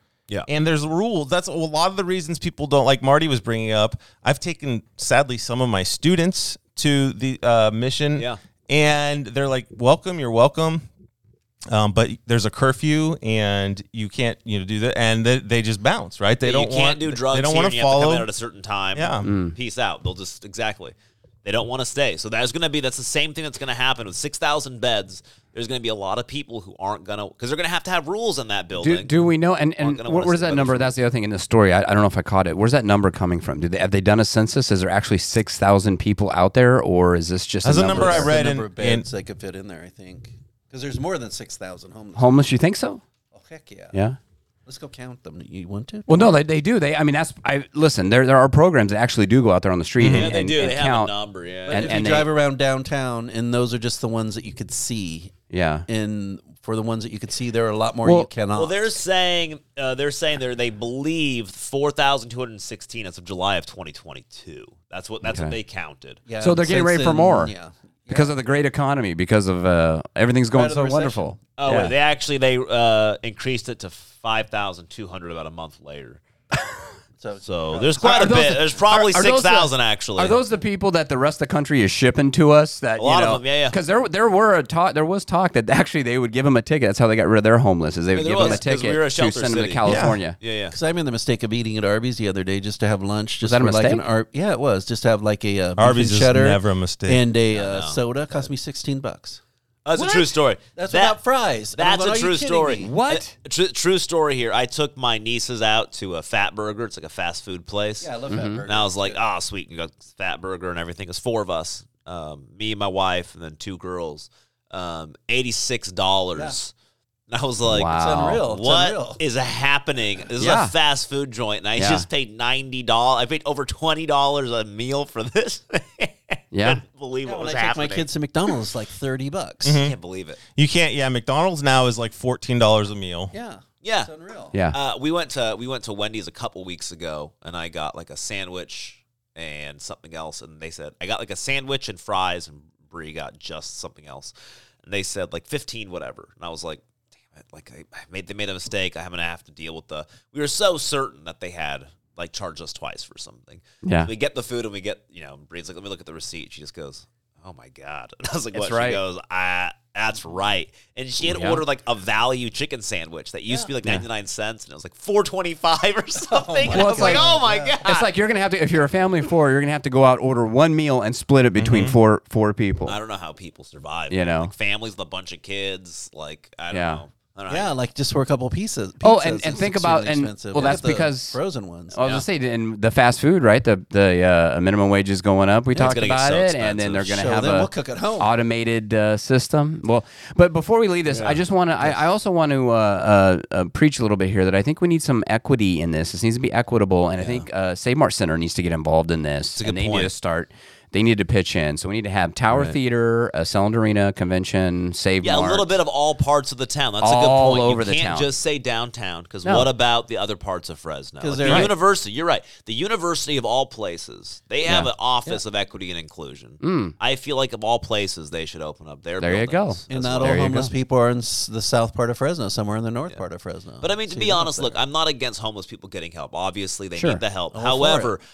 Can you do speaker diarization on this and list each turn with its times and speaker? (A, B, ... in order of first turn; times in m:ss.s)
0:00.5-0:10.8 A
0:11.7-0:18.3 A
0:16.4-0:29.2 B
0:18.9-0:19.3 A
0:19.2-0:19.5 C
0:28.8-0:38.4 C
0:29.8-0:30.9 B
0:37.6-0:39.1 A
0:37.8-0:42.3 D
0:42.2-0:43.0 C
0:43.3-0:44.0 D
0:44.6-0:46.4 D
0:46.1-0:51.1 C
0:50.0-0:50.3 A
0:50.1-0:52.1 B
0:51.7-0:52.3 C
0:51.7-0:58.8 D
0:55.5-0:55.8 C
0:58.0-0:58.3 C
0:58.5-1:06.2 B
1:05.2-1:05.5 C
1:06.3-1:08.3 D
1:06.4-1:07.5 C
1:08.1-1:11.9 C
1:10.5-1:11.3 D
1:11.6-1:16.2 B
1:17.2-1:18.8 D
1:17.4-1:20.4 B
1:18.0-1:30.4 C
1:23.0-1:23.8 B
1:28.1-1:30.7 B
1:29.8-1:30.2 A
1:30.7-1:39.4 D
1:33.4-1:34.0 C
1:35.8-1:37.2 A
1:37.5-1:38.4 B
1:39.8-1:41.2 B
1:39.9-1:42.9 D
1:41.8-1:48.1 B
1:42.8-1:43.3 C
1:48.0-1:49.2 D
1:48.3-1:48.6 C
1:48.6-1:56.7 B
1:57.3-2:08.1 B
1:57.6-1:58.4 C
1:57.9-1:59.2 D
2:00.4-2:00.7 C
2:01.8-2:02.0 C
2:06.5-2:06.8 C
2:07.2-2:09.8 D
2:09.6-2:10.0 A
2:09.8-2:10.4 B
2:10.5-2:13.3 A
2:13.3-2:14.6 D
2:13.8-2:14.1 B
2:14.7-2:24.3 B
2:24.8-2:48.1 B
2:33.8-2:34.1 C
2:38.5-2:39.0 C
2:41.2-2:41.6 C
2:46.3-2:47.8 D
2:46.7-2:53.0 C
2:51.6-2:52.0 A
2:52.8-2:57.7 B
2:54.1-2:54.5 C
2:56.7-2:57.0 C
2:57.5-3:02.0 D
2:59.0-3:01.4 C
3:01.9-3:25.7 C
3:05.7-3:07.2 B
3:07.1-3:08.3 D
3:11.1-3:11.4 B
3:17.2-3:17.4 B
3:19.6-3:20.1 B
3:25.2-3:40.4 B
3:27.0-3:28.3 C
3:31.2-3:31.7 D
3:31.4-3:31.7 C
3:36.6-3:36.9 C
3:39.2-3:40.7 C
3:39.9-3:44.8 D
3:43.8-3:48.2 B
3:47.0-3:47.2 C
3:47.5-3:48.1 D